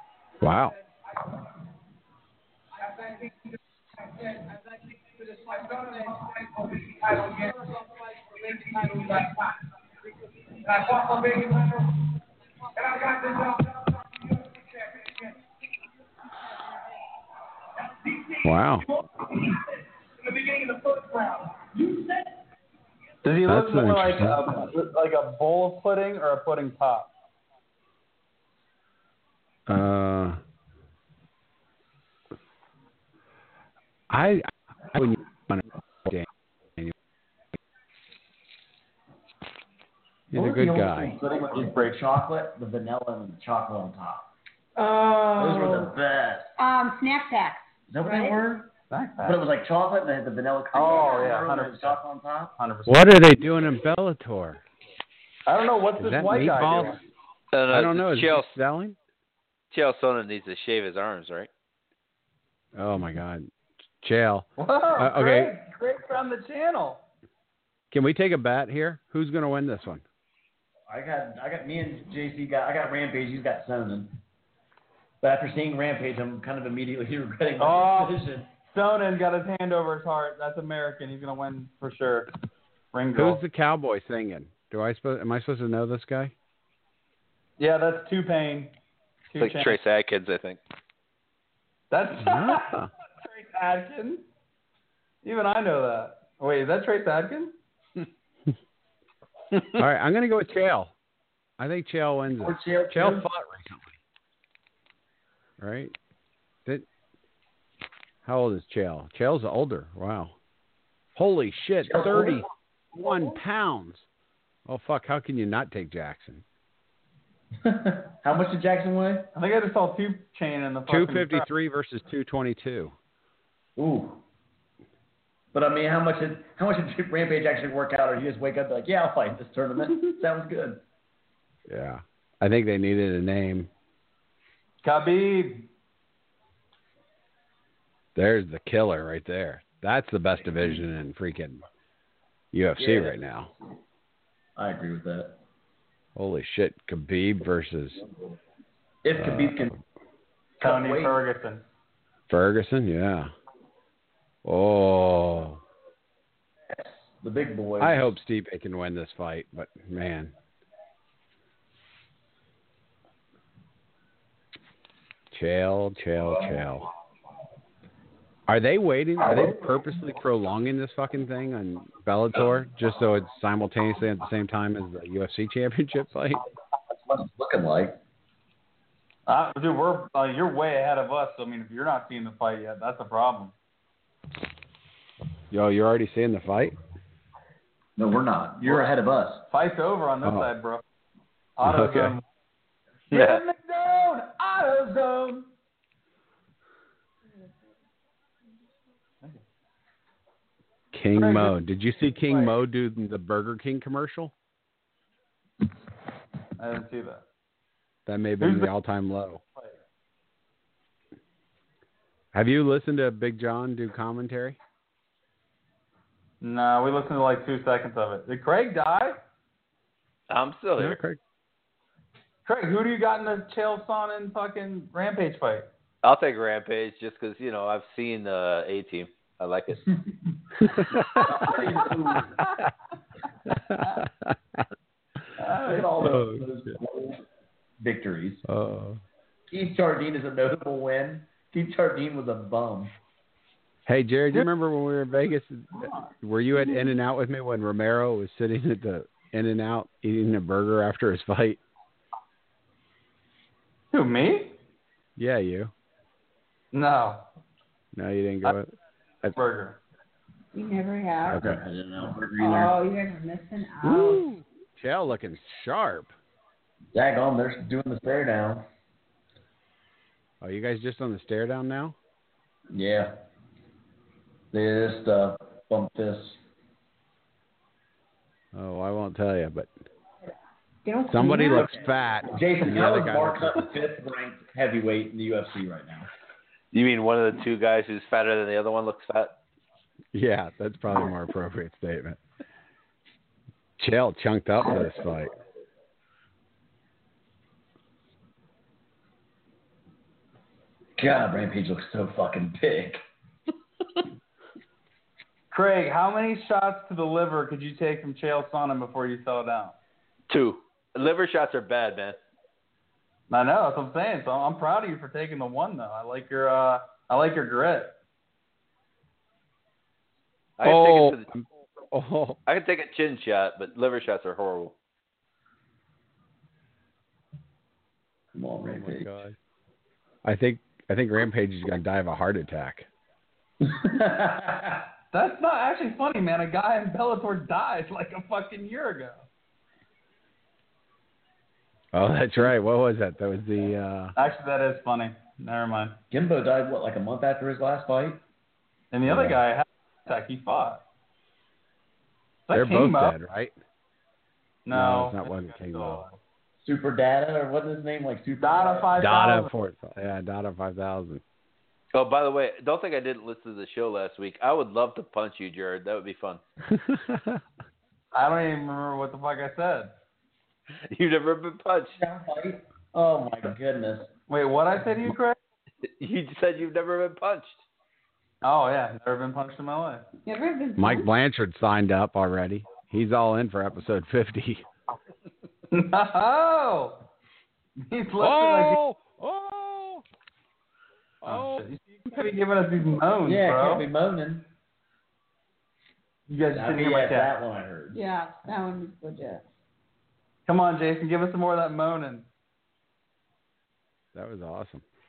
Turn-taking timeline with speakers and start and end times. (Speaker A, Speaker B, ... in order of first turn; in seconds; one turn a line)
Speaker A: 0.4-1.4
Speaker B: 0.4-0.8
Speaker A: 2.8-12.1
Speaker A: 12.7-15.4
Speaker A: 17.8-22.4
Speaker B: 18.4-18.9
Speaker C: 23.2-27.1
Speaker B: 23.5-24.5
Speaker B: 29.7-30.4
Speaker B: 34.1-36.9
Speaker D: 40.3-44.3
Speaker B: 40.3-41.2
Speaker C: 41.4-42.0
Speaker E: 44.8-45.9
Speaker D: 45.4-46.5
Speaker E: 46.6-48.4
Speaker D: 47.9-48.7
Speaker C: 48.9-49.4
Speaker D: 49.2-52.5
Speaker C: 50.7-52.0
Speaker C: 52.6-53.1
Speaker B: 52.9-54.6
Speaker C: 55.5-57.0
Speaker B: 56.0-57.0
Speaker F: 57.5-58.5
Speaker B: 57.7-59.0
Speaker F: 59.7-61.5
Speaker B: 62.8-65.5
Speaker C: 64.6-67.0
Speaker B: 67.9-70.0
Speaker D: 70.9-74.2
Speaker D: 75.2-78.5
Speaker C: 77.6-82.3
Speaker C: 82.9-83.4
Speaker B: 83.2-86.3
Speaker C: 87.6-88.7
Speaker C: 89.3-89.8
Speaker F: 89.4-90.6
Speaker C: 91.9-94.2
Speaker B: 92.2-92.9
Speaker C: 95.2-97.5
Speaker B: 99.7-100.9
Speaker B: 101.6-103.9
Speaker D: 102.4-103.3
Speaker B: 105.6-105.9
Speaker B: 108.2-110.3
Speaker B: 111.2-114.1
Speaker D: 111.9-112.4
Speaker B: 114.7-116.4
Speaker D: 117.6-119.3
Speaker C: 119.3-121.5
Speaker B: 120.9-122.9
Speaker D: 123.8-124.2
Speaker D: 125.5-130.8
Speaker B: 131.7-133.7
Speaker C: 134.8-135.7
Speaker B: 138.2-141.6
Speaker B: 142.5-143.5
Speaker D: 142.8-143.2
Speaker D: 144.6-145.4
Speaker B: 146.2-148.0
Speaker D: 149.0-149.7
Speaker B: 149.2-149.8
Speaker D: 150.6-151.2
Speaker C: 150.6-151.6
Speaker B: 152.3-153.3
Speaker B: 154.4-155.6
Speaker D: 156.7-158.2
Speaker B: 157.8-160.3
Speaker B: 165.3-166.9
Speaker B: 168.5-176.4
Speaker D: 176.9-178.0
Speaker C: 179.3-183.5
Speaker B: 185.5-186.8
Speaker D: 188.0-189.5
Speaker C: 189.5-190.8
Speaker B: 190.2-190.5
Speaker C: 191.6-192.2
Speaker B: 191.6-192.2
Speaker C: 193.1-195.5
Speaker F: 193.1-193.4
Speaker B: 200.9-204.3
Speaker C: 201.2-201.6
Speaker C: 202.2-202.5
Speaker C: 206.6-207.2
Speaker B: 208.1-209.4
Speaker C: 208.4-208.7
Speaker B: 212.3-214.6
Speaker C: 216.4-219.2
Speaker F: 220.3-221.0
Speaker B: 220.8-221.2
Speaker C: 222.5-225.7
Speaker F: 226.0-229.8
Speaker B: 230.7-231.5
Speaker D: 231.1-232.4
Speaker B: 233.7-234.4
Speaker C: 235.4-235.9
Speaker D: 235.6-237.2
Speaker B: 236.0-236.7
Speaker D: 237.8-238.4
Speaker B: 238.5-239.0
Speaker D: 239.5-242.9
Speaker B: 243.9-251.6
Speaker C: 245.8-246.1
Speaker C: 253.9-254.6
Speaker B: 255.2-255.7
Speaker C: 256.7-257.3
Speaker B: 257.9-258.7
Speaker C: 259.3-259.8
Speaker E: 260.5-261.5
Speaker B: 261.2-261.6
Speaker D: 261.4-262.8
Speaker E: 262.4-264.3
Speaker B: 263.8-266.1
Speaker D: 266.9-268.7
Speaker B: 270.4-272.0
Speaker D: 272.7-273.2
Speaker D: 274.5-276.4
Speaker B: 278.5-279.7
Speaker E: 280.9-281.9
Speaker B: 281.1-283.7
Speaker D: 281.5-286.1
Speaker F: 286.7-289.4
Speaker B: 290.1-292.2
Speaker B: 293.8-295.3
Speaker D: 301.0-303.0
Speaker C: 305.5-309.8
Speaker F: 310.3-312.2
Speaker C: 313.3-318.0
Speaker F: 320.6-321.2
Speaker B: 320.6-322.4
Speaker F: 322.5-324.8
Speaker D: 328.4-329.1
Speaker B: 328.7-329.4
Speaker B: 330.2-332.9
Speaker D: 333.6-334.8
Speaker C: 335.1-339.3
Speaker B: 341.9-344.1
Speaker C: 344.2-346.0
Speaker D: 346.1-348.2
Speaker C: 348.9-350.8
Speaker B: 349.1-349.4
Speaker C: 352.5-353.1
Speaker B: 352.5-353.6
Speaker C: 354.6-356.2
Speaker B: 354.7-356.1
Speaker D: 356.6-358.9
Speaker C: 358.4-359.5
Speaker B: 359.0-361.2
Speaker F: 361.9-366.4
Speaker B: 366.7-367.4
Speaker C: 368.1-369.9
Speaker F: 370.9-372.0
Speaker D: 372.0-374.1
Speaker C: 374.3-375.4
Speaker F: 375.9-377.6
Speaker C: 378.4-380.1
Speaker E: 380.2-381.1
Speaker B: 380.8-384.7
Speaker C: 385.7-387.1
Speaker C: 387.8-388.8
Speaker B: 388.2-390.0
Speaker B: 391.2-391.6
Speaker C: 391.2-393.9
Speaker D: 393.2-394.5
Speaker C: 396.3-397.3
Speaker D: 396.5-398.0
Speaker E: 397.9-399.5
Speaker C: 400.5-402.3
Speaker B: 404.1-404.8